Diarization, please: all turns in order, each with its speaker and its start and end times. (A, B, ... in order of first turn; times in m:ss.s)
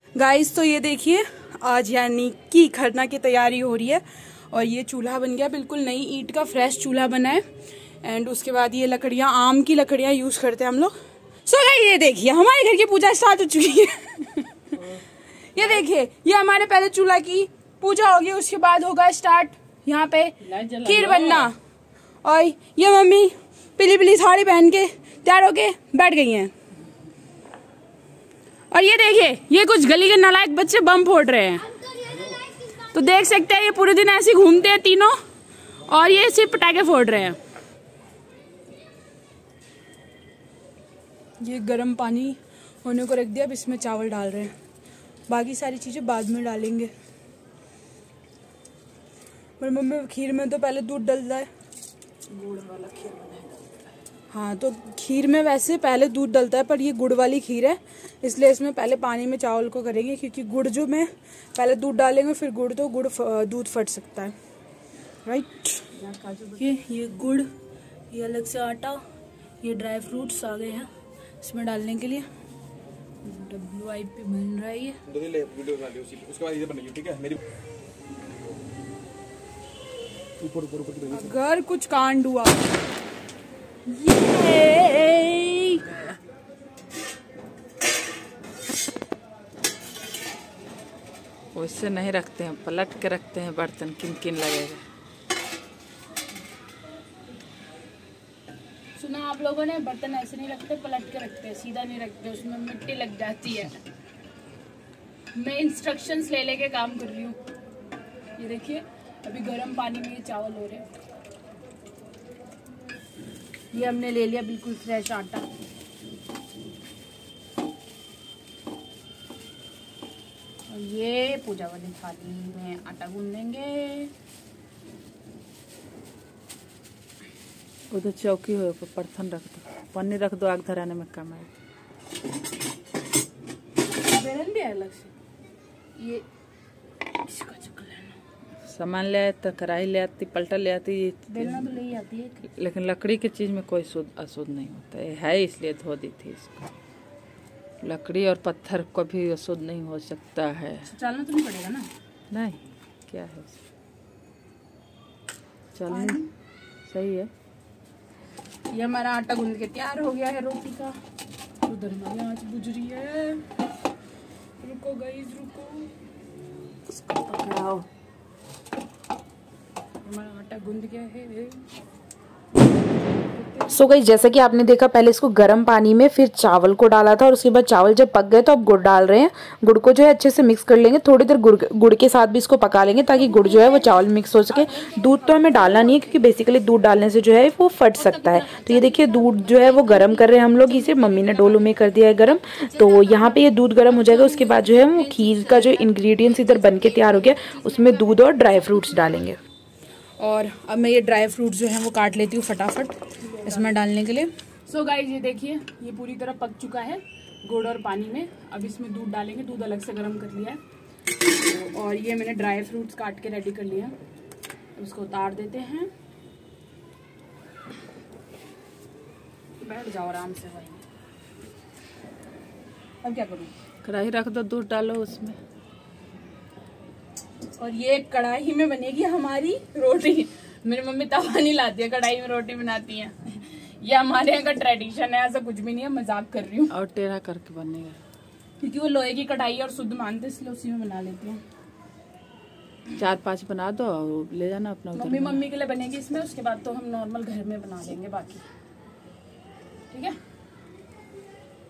0:00.2-0:07.4 A
0:08.0-0:14.8 A
0:15.5-0:21.5 A
0:20.4-0:21.5 B
0:22.2-0:26.5 A
0:28.7-0:35.1 A
0:35.8-0:37.4 A
0:41.4-0:44.5 A
0:45.3-0:46.9 A
0:49.6-0:51.5 A
0:52.3-0:53.5 A
0:54.3-1:04.3 A
1:05.2-1:07.5 A
1:08.1-1:09.0 A
1:09.6-1:10.9 A
1:11.4-1:12.3 A
1:13.2-1:15.0 A
1:15.1-1:17.4 C
1:20.4-1:21.0 C
1:21.1-1:22.6 A
1:23.9-1:26.0 A
1:31.5-1:34.8 B
1:39.0-1:43.8 A
1:45.3-1:47.4 A
1:48.4-1:50.9 A
1:53.7-1:55.5 A
2:00.7-2:04.1 A
2:07.9-2:11.5 B
2:13.9-2:15.1 A
2:16.0-2:16.2 A
2:17.2-2:18.2 A
2:18.7-2:21.7 B
2:21.3-2:22.4 A
2:22.6-2:26.7 B
2:27.8-2:30.9 B
2:30.9-2:31.9 A
2:32.3-2:33.6 B
2:35.8-2:36.2 B
2:35.9-2:36.3 A
2:36.9-2:37.3 B
2:38.7-2:41.0 A
2:41.6-2:43.5 A
2:44.6-2:45.9 A
2:46.9-2:47.8 A
2:50.0-2:51.6 A
2:53.3-2:53.8 A
2:53.7-3:19.4 D
3:03.2-3:06.4 A
3:08.0-3:11.9 A
3:12.7-3:13.3 A
3:13.9-3:15.9 A
3:16.6-3:17.9 A
3:20.2-3:30.6 A
3:31.2-3:33.9 A
3:34.8-3:35.9 A
3:39.6-3:40.8 A
3:43.0-3:43.5 A
3:43.8-3:45.4 B
3:47.6-3:56.7 A
3:56.7-3:58.0 B
3:58.6-4:01.4 A
4:02.9-4:05.4 B
4:04.9-4:08.4 A
4:09.9-4:10.2 A